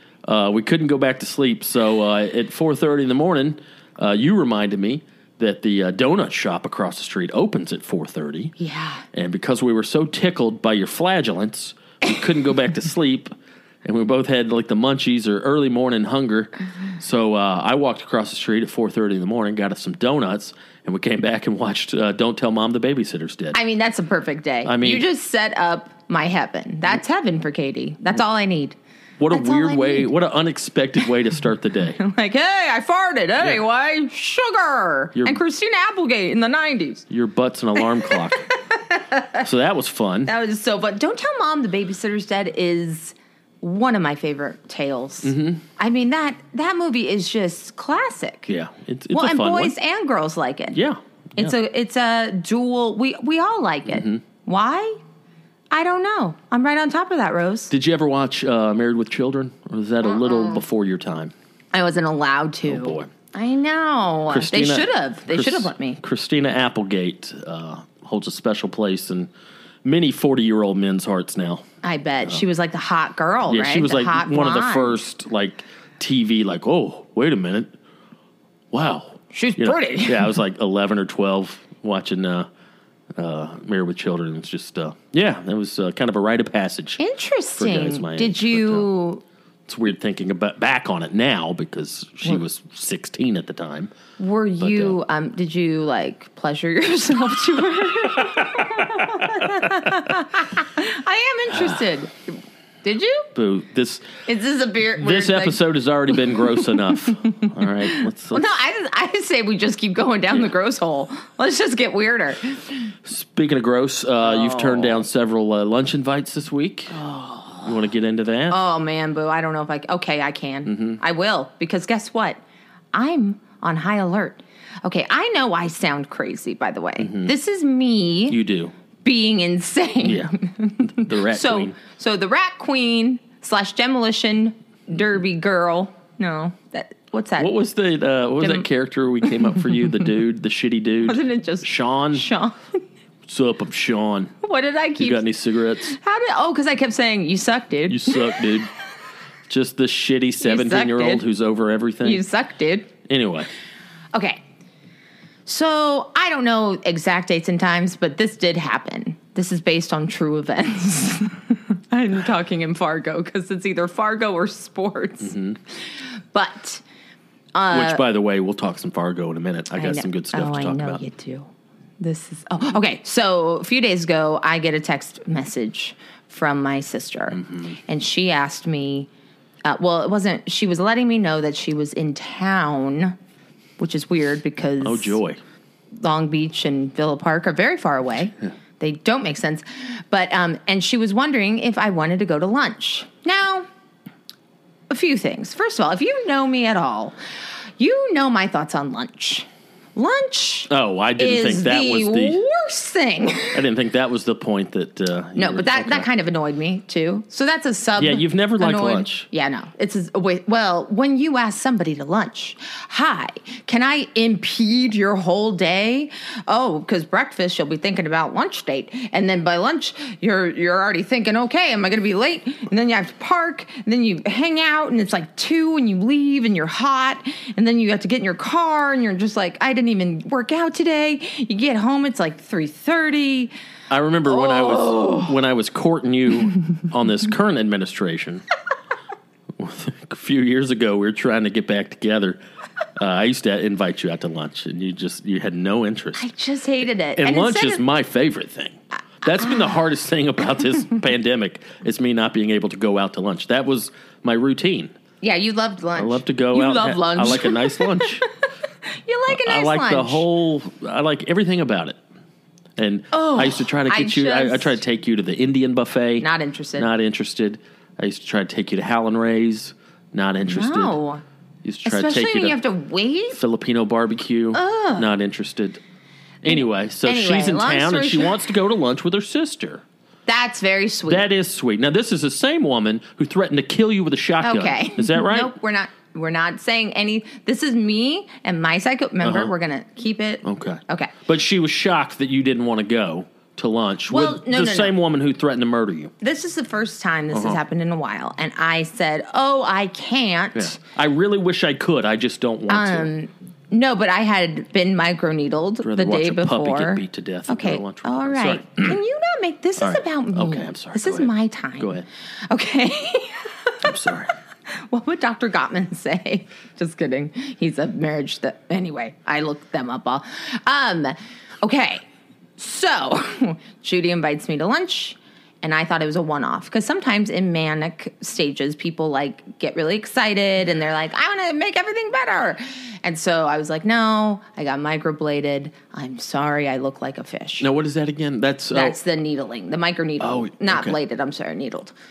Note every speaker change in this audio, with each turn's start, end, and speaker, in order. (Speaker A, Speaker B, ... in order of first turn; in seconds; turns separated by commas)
Speaker A: 0.2-8.5, Speaker B: 8.6-9.1, Speaker A: 9.1-23.6, Speaker B: 23.5-28.8, Speaker A: 24.6-25.1, Speaker A: 29.2-32.0, Speaker B: 29.3-30.1, Speaker B: 32.0-37.1, Speaker A: 35.1-35.4, Speaker A: 37.1-38.5, Speaker B: 38.5-39.4, Speaker A: 39.4-40.3, Speaker B: 40.3-48.5, Speaker A: 45.2-45.6, Speaker A: 48.5-49.8, Speaker B: 49.1-50.8, Speaker A: 50.7-51.5, Speaker B: 51.4-55.0, Speaker A: 53.9-54.2, Speaker B: 55.7-57.7, Speaker A: 57.7-61.3, Speaker B: 60.0-60.6, Speaker B: 61.7-66.0, Speaker A: 62.7-63.1, Speaker A: 64.3-69.3, Speaker A: 69.8-71.7, Speaker B: 71.8-75.0, Speaker A: 73.5-77.7, Speaker A: 78.7-82.5, Speaker B: 79.3-80.3, Speaker A: 83.2-87.0, Speaker B: 87.0-89.2, Speaker A: 87.6-88.9, Speaker A: 89.7-93.9, Speaker B: 94.2-103.3, Speaker A: 94.6-95.0, Speaker A: 98.4-99.7, Speaker A: 103.3-104.1, Speaker B: 104.3-105.6, Speaker A: 105.0-108.4, Speaker B: 106.2-106.6, Speaker B: 107.2-112.9, Speaker A: 113.1-117.0, Speaker B: 114.2-115.1, Speaker B: 116.9-117.7, Speaker A: 117.6-118.6, Speaker B: 118.5-122.4, Speaker A: 120.7-121.0, Speaker B: 122.9-128.4, Speaker A: 127.0-127.3, Speaker A: 128.3-128.7, Speaker B: 129.0-137.6, Speaker A: 130.0-131.8, Speaker A: 137.4-142.3, Speaker B: 138.4-138.7, Speaker B: 141.0-142.6, Speaker A: 143.3-144.3, Speaker B: 144.4-145.3, Speaker A: 145.0-145.9, Speaker B: 145.8-148.5, Speaker A: 147.9-148.7, Speaker A: 149.5-152.2, Speaker B: 150.4-151.2, Speaker B: 152.0-152.9, Speaker A: 153.1-153.5, Speaker B: 154.1-154.4, Speaker B: 155.5-165.3, Speaker A: 165.2-165.6, Speaker B: 166.3-166.8, Speaker B: 167.6-168.0, Speaker A: 167.7-171.0, Speaker B: 169.8-171.5, Speaker B: 172.0-179.1, Speaker A: 177.3-177.8, Speaker B: 179.7-183.2, Speaker B: 183.8-185.2, Speaker A: 184.8-185.4, Speaker B: 186.0-193.7, Speaker B: 194.9-197.2, Speaker B: 197.8-203.7, Speaker A: 200.7-202.4, Speaker A: 203.5-206.1, Speaker B: 205.4-233.5, Speaker A: 208.0-209.3, Speaker A: 233.9-238.4, Speaker B: 234.3-235.3, Speaker A: 239.6-242.4, Speaker A: 243.0-246.3, Speaker B: 246.2-247.8, Speaker A: 247.2-254.9, Speaker B: 249.3-249.8, Speaker B: 255.2-258.2, Speaker A: 256.0-258.2, Speaker B: 259.1-260.3, Speaker A: 259.3-262.0, Speaker A: 262.8-271.0, Speaker B: 263.1-264.8, Speaker B: 266.2-266.9, Speaker B: 270.5-271.2, Speaker A: 271.6-272.6, Speaker B: 271.9-273.4, Speaker A: 273.3-275.8, Speaker B: 274.5-275.1, Speaker A: 276.4-279.8, Speaker B: 276.5-278.4, Speaker B: 280.3-281.3, Speaker A: 281.1-285.5, Speaker B: 284.4-291.1, Speaker A: 289.2-289.5, Speaker A: 290.4-296.1, Speaker B: 294.1-294.9, Speaker B: 296.2-300.8, Speaker A: 297.3-297.6, Speaker A: 300.5-303.1, Speaker B: 302.7-314.0, Speaker A: 305.8-309.0, Speaker A: 309.8-312.1, Speaker A: 313.8-314.3, Speaker B: 314.7-322.0, Speaker B: 322.6-337.7, Speaker A: 337.6-339.0, Speaker B: 338.7-341.9, Speaker A: 340.2-341.0